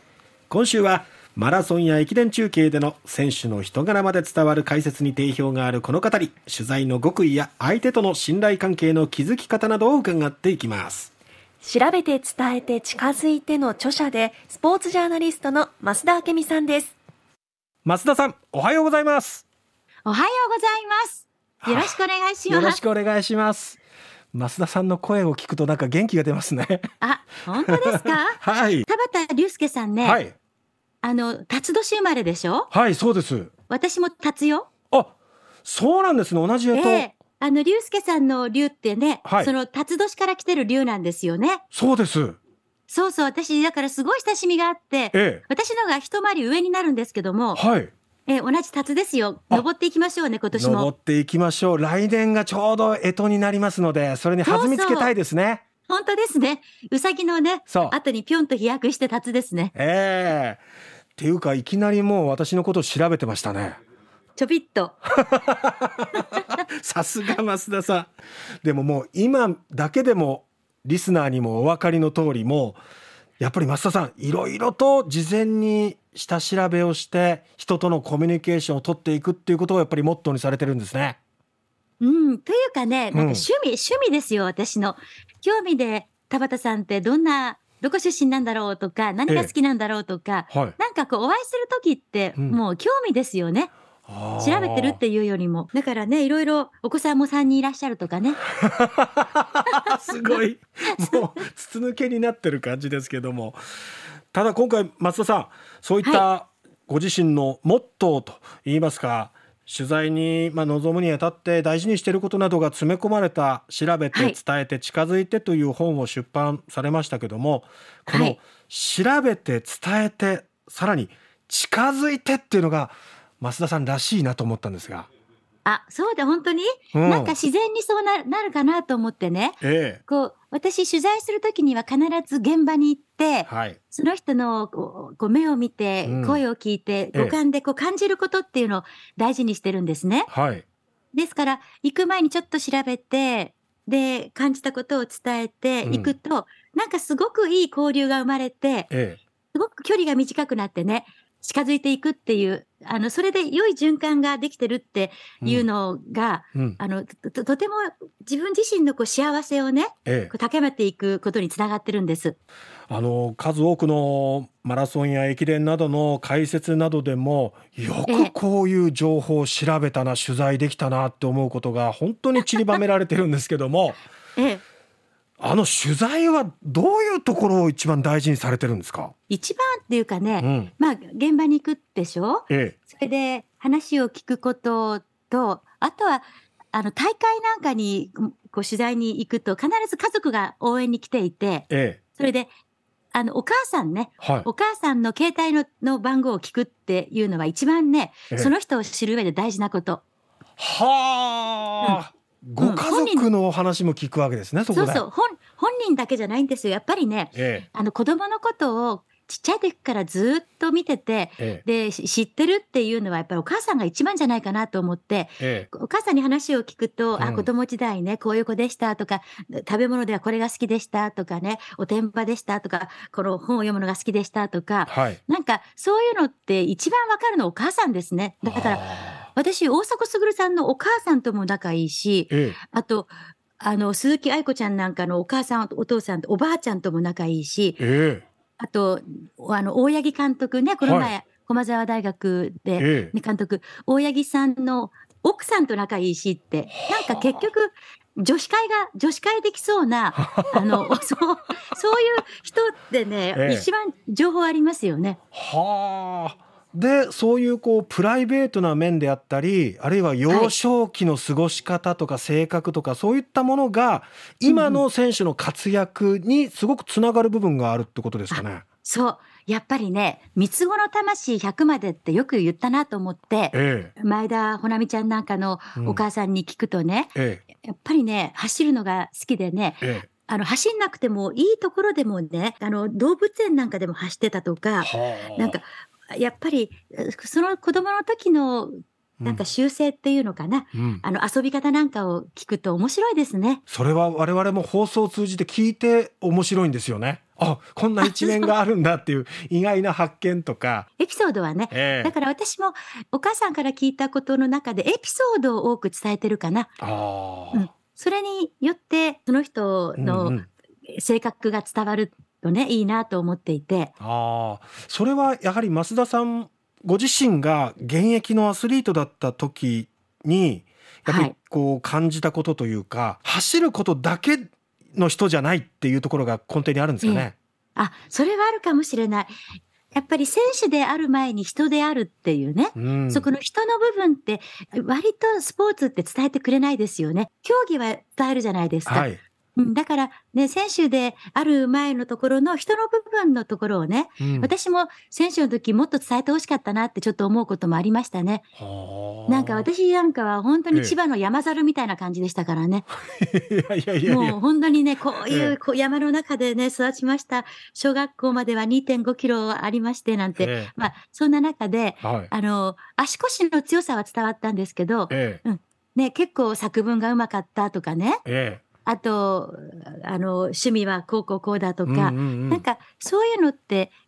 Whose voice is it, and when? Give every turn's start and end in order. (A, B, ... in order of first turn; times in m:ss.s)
0:00.5-0:11.1 A
0:11.6-0:16.9 B
0:17.8-0:19.4 A
0:20.0-0:22.8 C
0:21.6-0:22.0 A
0:22.5-0:23.8 A
0:24.3-0:26.9 A
0:27.0-0:30.2 C
0:27.6-0:28.9 A
0:30.0-0:30.3 A
0:31.0-0:32.7 C
0:32.7-0:33.5 A
0:33.7-0:34.7 C
0:35.6-0:37.1 A
0:36.7-0:41.6 C
0:39.2-0:39.5 A
0:41.7-0:42.4 A
0:42.9-0:47.6 C
0:45.1-0:45.4 A
0:47.5-0:47.9 A
0:48.3-0:50.9 C
0:50.5-0:55.6 A
0:54.4-0:55.1 C
0:55.9-0:59.7 C
0:57.7-0:58.0 A
0:59.7-1:00.6 A
1:01.2-1:03.8 A
1:04.4-1:05.0 C
1:05.1-1:08.1 A
1:08.6-1:12.8 A
1:13.4-1:21.2 A
1:22.0-1:33.7 C
1:23.1-1:23.5 A
1:29.3-1:29.5 A
1:30.5-1:30.7 A
1:34.1-1:35.0 A
1:34.4-1:38.4 C
1:38.6-1:43.6 A
1:39.8-1:40.4 C
1:40.9-1:41.3 C
1:44.3-2:05.1 A
1:58.1-1:58.4 C
2:05.6-2:20.3 C
2:06.9-2:07.3 A
2:09.6-2:10.0 A
2:13.5-2:13.8 A
2:16.0-2:16.4 A
2:20.3-2:20.6 A
2:21.1-2:28.9 C
2:25.8-2:26.1 A
2:28.9-2:29.2 A
2:29.5-2:42.4 C
2:40.0-2:40.3 A
2:42.9-2:54.0 A
2:48.1-2:48.3 C
2:54.4-2:54.6 C
2:55.4-2:59.1 A
2:59.3-3:12.5 C
3:00.4-3:00.7 A
3:02.5-3:02.8 A
3:11.7-3:12.0 A
3:13.1-3:20.0 C
3:14.2-3:14.4 A
3:20.6-3:25.0 A
3:22.6-3:23.3 C
3:24.7-3:57.8 C
3:27.3-3:27.6 A
3:35.4-3:35.7 A
3:37.2-3:37.5 A
3:44.9-3:45.2 A
3:48.4-3:49.3 A
3:52.3-3:52.6 A
3:57.8-3:58.2 A
3:58.6-4:15.2 C
4:00.8-4:01.1 A
4:02.8-4:03.1 A
4:06.7-4:07.5 A
4:10.2-4:10.9 A
4:13.3-4:13.7 A
4:15.3-4:28.6 A
4:20.3-4:20.5 C
4:24.5-4:24.8 C
4:28.3-4:53.6 C
4:33.5-4:33.9 A
4:35.8-4:36.0 A
4:37.1-4:37.4 A
4:39.8-4:40.1 A
4:44.8-4:45.6 A
4:50.7-4:51.0 A
4:53.7-5:00.9 A
4:58.0-4:58.5 C
5:01.0-5:06.8 C
5:01.7-5:02.1 A
5:06.8-5:07.7 A
5:07.5-5:10.4 C
5:10.0-5:10.5 A
5:10.9-5:13.9 C
5:14.0-5:27.3 A
5:21.0-5:21.3 C
5:27.0-5:29.3 C
5:29.9-5:48.4 C
5:32.8-5:33.3 A
5:38.8-5:39.2 A
5:44.2-5:44.5 A
5:48.6-5:49.7 A
5:49.3-5:52.8 C
5:53.1-5:54.4 A
5:54.0-6:08.2 C
5:55.3-5:55.5 A
6:00.4-6:00.7 A
6:02.0-6:02.3 A
6:05.1-6:05.4 A
6:08.2-6:08.6 A
6:08.8-6:13.9 C
6:11.8-6:12.6 A